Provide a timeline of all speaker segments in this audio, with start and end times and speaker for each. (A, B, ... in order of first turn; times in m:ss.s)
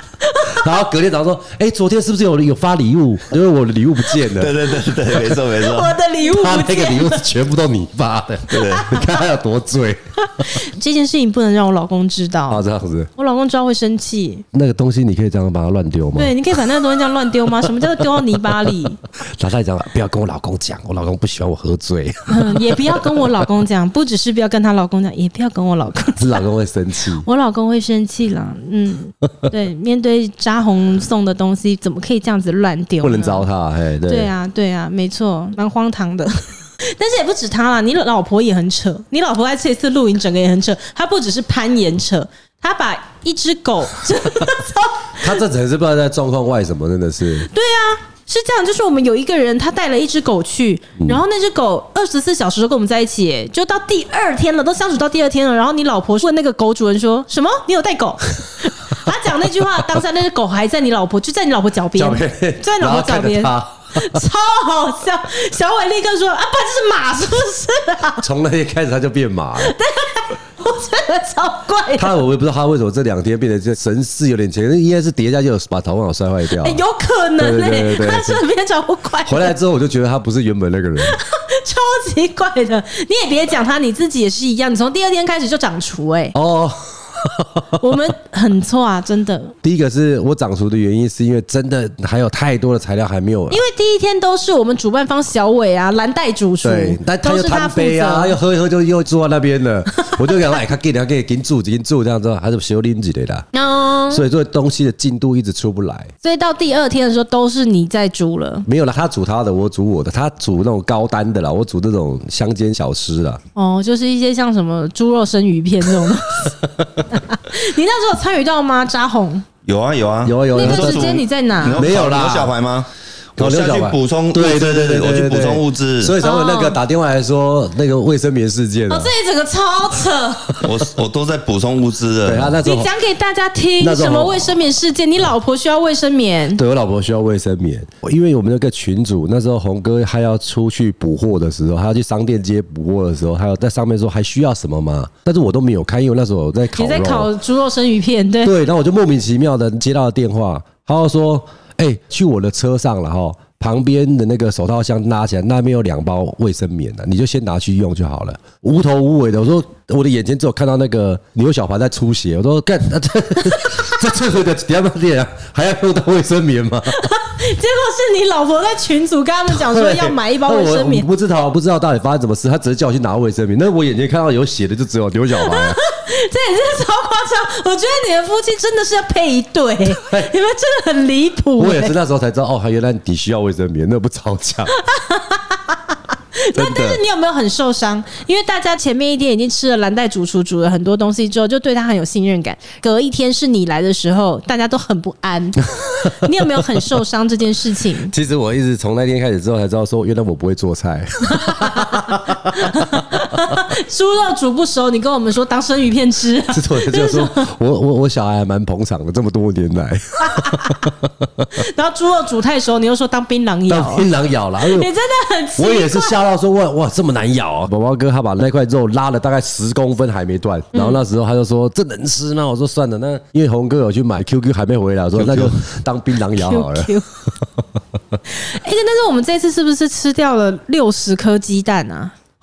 0:00.2-0:00.6 A
0:00.4-0:04.7 B
0:04.3-0:06.0 C
0:05.3-0:07.2 A
0:06.2-0:10.0 B
0:08.5-0:08.9 C
0:08.5-0:09.2 A
0:10.2-0:12.6 A
0:12.5-0:13.1 B
0:13.2-0:14.4 A
0:14.5-0:16.3 B
0:16.2-0:19.0 A
0:19.4-0:23.3 B
0:22.3-0:26.4 A
0:26.2-0:27.2 B
0:27.2-0:33.5 A
0:33.0-0:34.3 B
0:34.1-0:45.3 A
0:45.2-0:47.5 B
0:47.4-1:08.2 A
1:01.9-1:04.2 B
1:08.2-1:09.7 B
1:09.6-1:12.2 A
1:12.0-1:16.8 B
1:16.6-1:19.5 A
1:17.4-1:18.4 B
1:19.2-1:21.2 B
1:21.0-1:26.3 A
1:26.3-1:28.0 B
1:27.8-1:29.5 A
1:29.6-1:33.6 B
1:33.5-1:38.4 A
1:36.6-1:43.5 B
1:43.5-1:44.2 A
1:44.1-1:46.1 B
1:46.2-1:48.7 A
1:48.7-1:53.4 B
1:53.5-1:56.6 A
1:56.0-1:57.1 B
1:57.1-1:59.4 A
1:59.6-2:06.2 C
2:00.2-2:01.1 B
2:00.5-2:01.8 A
2:01.7-2:02.5 B
2:03.4-2:09.1 B
2:06.2-2:06.8 A
2:08.9-2:10.6 A
2:10.6-2:12.5 C
2:12.2-2:12.9 B
2:12.6-2:16.6 A
2:13.8-2:14.6 B
2:16.5-2:27.3 B
2:26.8-2:28.5 A
2:28.4-2:47.0 B
2:43.5-2:43.9 A
2:46.9-2:51.1 A
2:49.5-2:55.8 B
2:55.4-3:01.9 A
2:59.9-3:00.3 B
3:01.6-3:04.8 B
3:04.7-3:18.1 A
3:06.5-3:07.0 B
3:18.1-3:23.0 B
3:21.3-3:27.5 A
3:26.5-3:31.5 B
3:30.2-3:30.8 A
3:31.5-3:34.1 A
3:33.7-3:34.9 B
3:34.6-3:36.1 A
3:35.6-3:46.9 B
3:40.7-3:41.0 A
3:45.2-3:45.5 C
3:46.4-3:47.1 A
3:48.3-3:52.1 A